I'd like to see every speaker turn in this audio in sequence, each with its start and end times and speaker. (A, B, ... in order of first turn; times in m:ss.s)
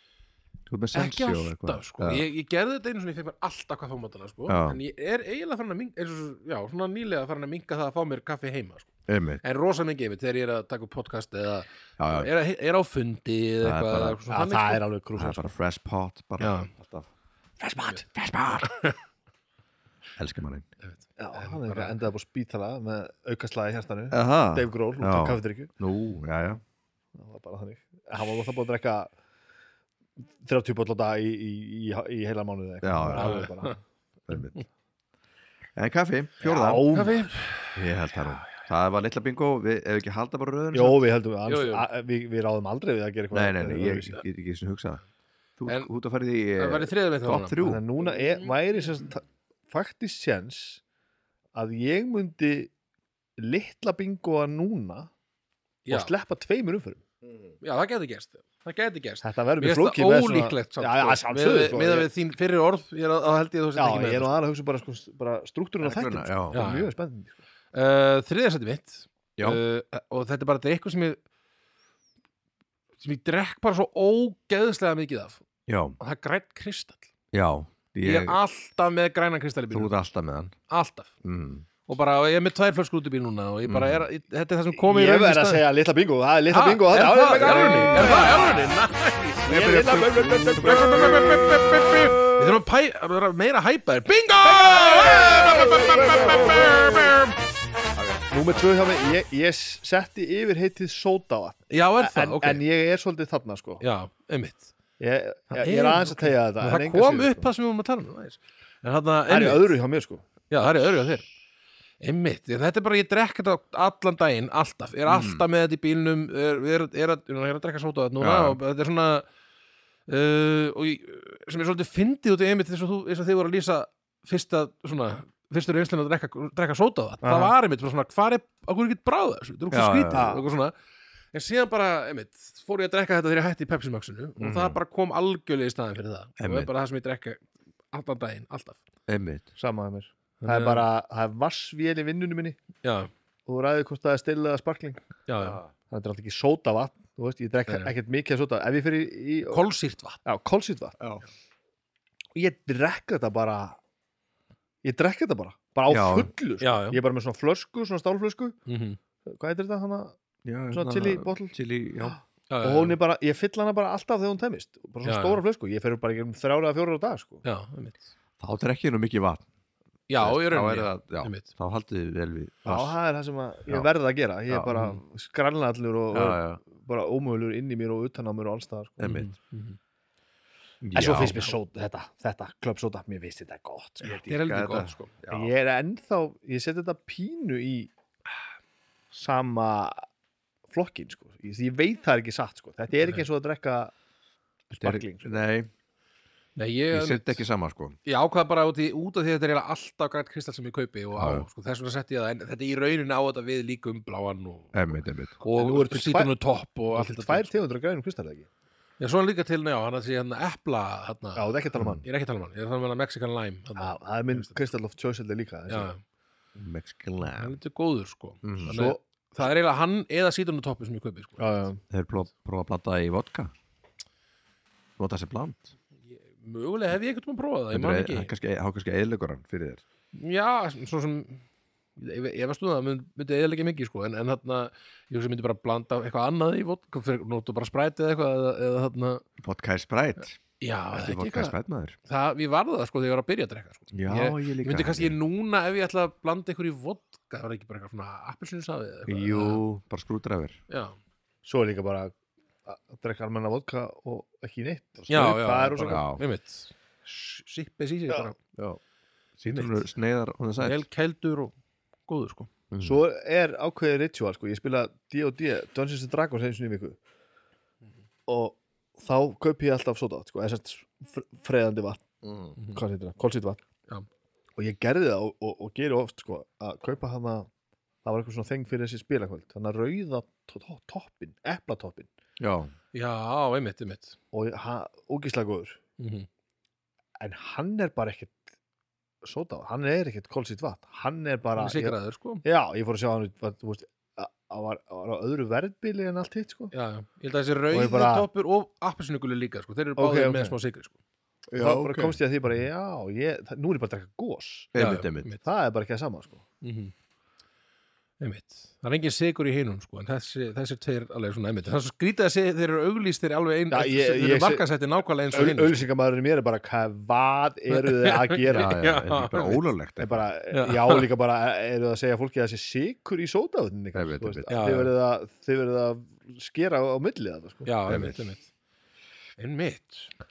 0:00.7-0:02.2 A
0:00.9-0:14.8 B
0:04.5-0:04.8 A
0:09.1-0:09.4 A
0:12.0-0:12.3 A
0:13.6-0:14.2 A
0:14.3-0:15.5 C
0:15.2-0:17.1 A
0:16.4-0:16.7 B
0:17.6-0:18.0 C
0:17.8-0:18.0 B
0:18.1-0:18.7 A
0:18.6-0:19.0 B
0:20.2-0:20.7 A
0:20.8-0:22.0 B
0:21.2-0:25.7 C
0:24.1-0:26.6 A
0:27.1-0:29.1 C
0:30.4-0:33.8 C
0:32.8-0:33.4 A
0:33.1-0:33.8 B
0:34.3-0:34.6 A
0:35.8-0:36.9 A
0:36.4-0:37.2 C
0:36.9-0:38.5 B
0:37.7-0:41.0 A
0:40.7-0:44.2 C
0:41.5-0:41.9 B
0:43.3-0:45.0 A
0:45.6-0:47.8 A
0:46.6-0:48.5 B
0:47.6-0:50.8 C
0:51.5-0:52.7 C
0:53.4-0:55.1 C
0:55.8-0:56.1 B
0:55.9-0:57.0 C
0:57.6-1:04.3 B
0:59.2-1:02.1 C
1:03.8-1:07.4 C
1:05.8-1:06.6 A
1:06.5-1:06.9 B
1:07.7-1:11.2 B
1:13.0-1:15.4 B
1:15.7-1:16.0 A
1:16.0-1:17.1 B
1:17.3-1:18.4 A
1:18.0-1:19.9 B
1:19.7-1:20.5 A
1:20.7-1:21.1 B
1:21.2-1:21.6 A
1:21.8-1:25.6 B
1:23.7-1:24.0 A
1:24.8-1:28.4 C
1:26.5-1:29.8 B
1:27.7-1:28.3 A
1:29.4-1:31.6 A
1:29.4-1:31.4 C
1:30.6-1:37.4 B
1:34.5-1:37.1 C
1:37.9-1:38.3 A
1:38.3-1:43.8 C
1:41.7-1:42.6 B
1:43.8-1:44.7 B
1:45.0-1:47.5 C
1:45.5-1:49.7 B
1:49.3-1:50.2 C
1:50.5-1:51.3 B
1:52.0-1:59.2 B
1:55.1-1:55.4 A
1:58.2-1:58.6 A
2:00.1-2:10.7 B
2:07.2-2:07.5 C
2:09.7-2:10.3 A
2:10.1-2:10.4 C
2:11.3-2:18.8 B
2:14.4-2:14.8 A
2:16.4-2:16.7 A
2:19.1-2:19.5 A
2:19.6-2:22.6 C
2:20.4-2:20.8 B
2:22.8-2:23.1 B
2:23.4-2:25.0 C
2:25.3-2:25.6 B
2:25.4-2:25.7 A
2:25.9-2:29.6 C
2:27.7-2:27.9 B
2:29.5-2:30.2 B
2:30.2-2:31.0 C
2:31.0-2:31.2 A
2:32.3-2:33.8 C
2:34.8-2:38.6 C
2:35.9-2:36.3 A
2:36.6-2:37.0 B
2:38.7-2:39.0 B
2:39.2-2:40.2 C
2:40.4-2:42.2 A
2:40.7-2:47.4 C
2:42.5-2:43.0 B
2:45.0-2:45.4 B
2:47.4-2:48.1 B
2:48.4-2:49.4 A
2:50.1-2:51.5 B
2:50.2-2:53.0 A
2:52.6-2:59.1 C
2:54.7-2:55.0 B
2:56.1-2:56.6 A
2:59.0-2:59.3 A
2:59.0-2:59.8 B
3:00.8-3:01.5 A
3:00.9-3:04.2 C
3:04.0-3:05.5 A
3:04.0-3:05.1 B
3:05.3-3:07.9 C
3:09.1-3:10.0 C
3:10.7-3:13.9 C
3:14.7-3:15.4 C
3:14.8-3:15.7 A
3:16.6-3:17.4 B
3:16.9-3:18.0 A
3:18.0-3:27.5 B
3:21.1-3:21.4 A
3:24.7-3:25.4 A
3:25.5-3:26.3 C
3:26.9-3:28.5 C
3:29.0-3:31.5 B
3:31.4-3:32.0 C
3:31.8-3:32.0 A
3:32.0-3:34.6 B
3:33.8-3:35.9 C
3:35.7-3:36.0 B
3:36.5-3:37.6 A
3:37.2-3:41.7 B
3:38.4-3:38.8 A
3:38.6-3:39.0 C
3:41.4-3:41.8 C
3:41.9-3:43.5 A
3:45.0-3:45.7 A
3:46.1-3:48.3 B
3:47.7-3:49.8 A
3:50.1-3:51.4 B
3:52.0-3:59.2 B
3:59.4-4:00.4 A
4:00.6-4:09.6 B
4:00.9-4:02.0 A
4:03.9-4:05.1 A
4:09.1-4:10.6 A
4:10.7-4:11.0 B
4:11.4-4:12.1 C
4:12.6-4:16.0 C
4:15.0-4:16.2 A
4:15.1-4:18.4 B
4:19.4-4:20.8 A
4:19.5-4:19.8 B
4:20.6-4:21.5 B
4:22.0-4:22.5 B
4:22.7-4:23.0 A
4:22.8-4:27.0 C
4:28.3-4:32.0 C
4:32.2-4:32.5 A
4:32.6-4:32.8 B
4:32.7-4:33.6 C
4:34.6-4:37.5 C
4:38.0-4:42.1 C
4:42.4-4:42.7 A
4:42.9-4:44.2 B
4:44.3-4:45.8 C
4:46.0-4:46.3 B
4:47.2-4:48.4 C
4:49.2-4:56.7 C
4:51.6-4:52.4 B
4:56.7-5:00.9 B
4:57.7-4:58.3 C
5:00.0-5:00.5 C
5:01.5-5:02.2 A
5:01.6-5:04.7 C
5:04.7-5:05.3 A
5:04.8-5:05.4 B
5:05.4-5:06.4 C
5:06.6-5:06.9 B
5:08.2-5:15.8 B
5:13.7-5:14.6 C
5:15.3-5:18.8 C
5:17.7-5:19.6 B
5:18.5-5:20.2 A
5:20.0-5:27.7 C
5:20.5-5:21.0 B
5:23.9-5:24.5 A
5:24.5-5:24.9 B
5:27.6-5:28.5 B
5:27.9-5:28.2 A
5:29.4-5:30.1 B